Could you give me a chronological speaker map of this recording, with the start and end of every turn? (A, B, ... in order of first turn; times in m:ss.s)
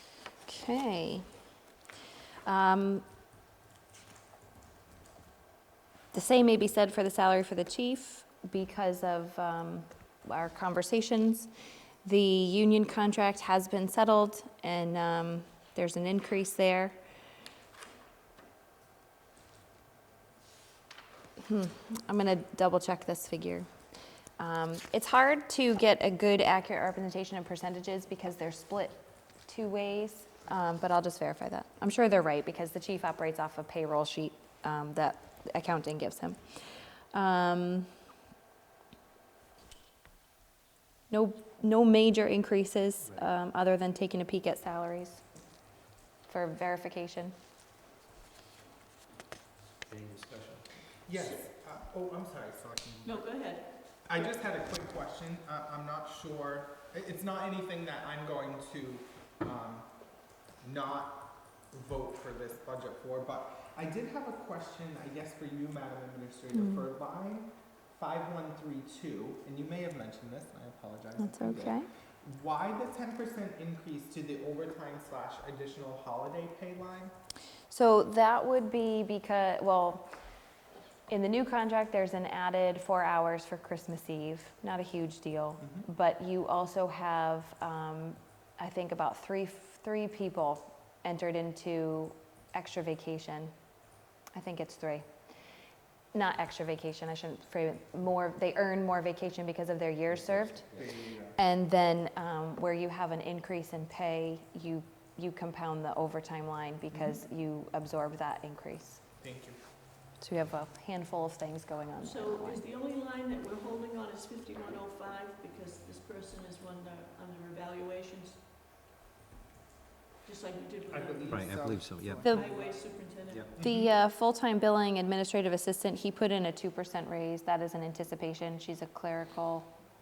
0:00.4-0:01.3 A
0:02.4-0:03.0 A
0:06.1-0:11.5 A
0:12.0-0:16.9 A
0:21.4-0:23.7 A
0:24.4-0:37.9 A
0:41.1-0:45.2 A
0:43.0-0:43.3 B
0:46.3-0:47.3 A
0:49.8-0:50.7 B
0:51.0-0:53.5 C
0:51.1-0:51.4 D
0:53.0-0:54.2 D
0:54.0-0:59.9 C
1:00.6-1:17.1 C
1:06.5-1:06.9 A
1:11.2-1:11.9 A
1:17.7-1:20.1 A
1:21.1-1:33.5 A
1:25.6-1:25.9 C
1:34.3-1:35.0 A
1:36.1-1:40.7 A
1:40.1-1:40.9 B
1:40.8-1:41.4 C
1:41.3-1:49.0 A
1:46.9-1:47.2 C
1:49.2-1:49.6 C
1:50.2-1:52.6 A
1:52.0-1:58.4 D
2:00.2-2:01.6 D
2:00.9-2:02.9 C
2:01.3-2:02.2 B
2:02.2-2:02.5 A
2:02.3-2:03.5 D
2:03.5-2:03.9 C
2:03.6-2:09.7 A